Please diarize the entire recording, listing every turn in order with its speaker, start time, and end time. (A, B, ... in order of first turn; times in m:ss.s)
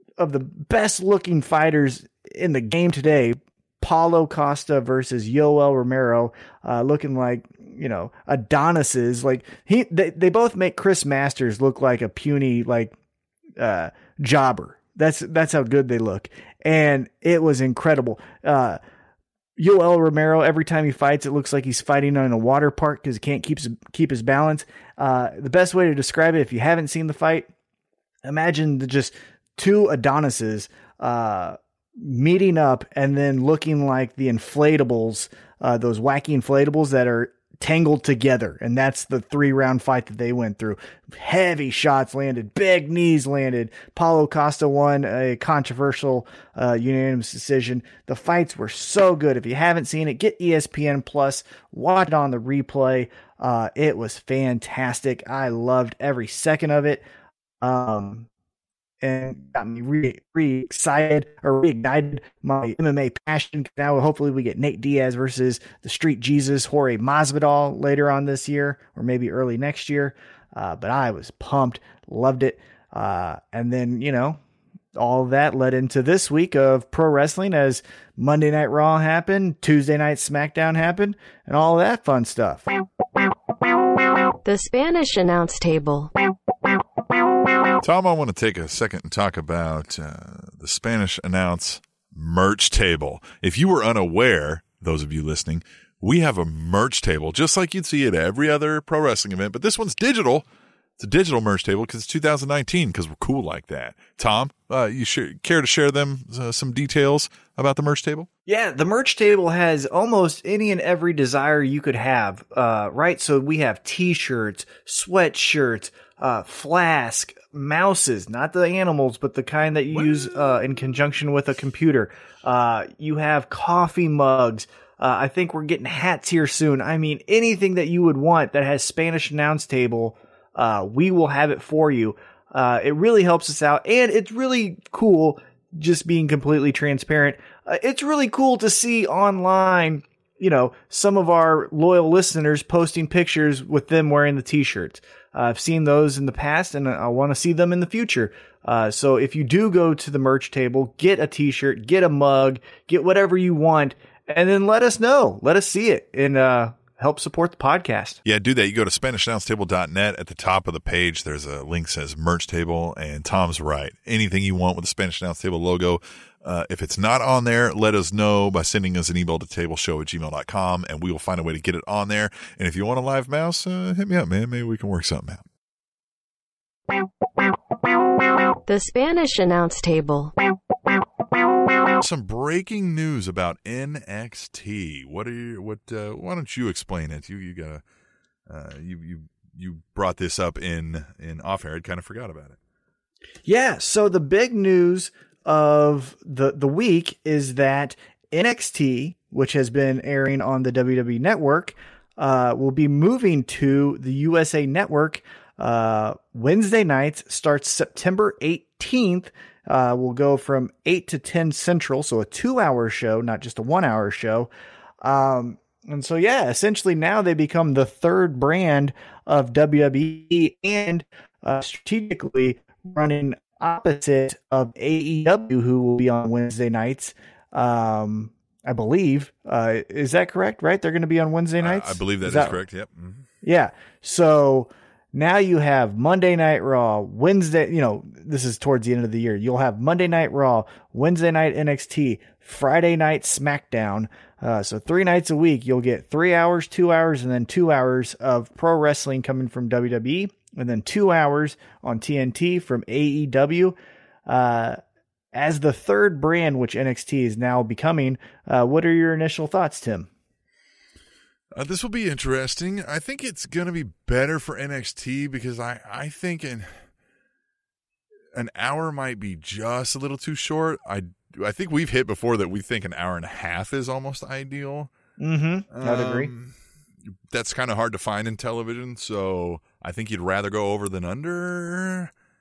0:00.2-0:12.9 A
0:13.6-0:18.8 A
0:19.6-0:27.5 A
0:28.2-0:57.0 A
0:57.6-0:58.3 A
0:59.0-1:14.4 A
1:15.0-1:22.7 A
1:24.4-1:26.1 B
1:27.8-1:40.4 C
1:41.0-1:48.3 C
1:48.5-2:38.2 A
1:59.9-2:00.3 C
2:38.2-2:55.4 C
2:58.6-3:00.3 B
3:02.0-3:07.8 C
3:08.5-3:12.6 C
3:13.4-3:34.5 A
3:35.0-3:52.6 A
3:51.6-3:53.3 C
3:53.4-4:13.7 A
4:14.3-4:14.8 A
4:15.3-4:20.1 A
4:21.5-4:26.8 C
4:28.3-4:34.9 C
4:35.2-4:36.3 A
4:35.7-4:36.6 C
4:37.3-4:42.1 C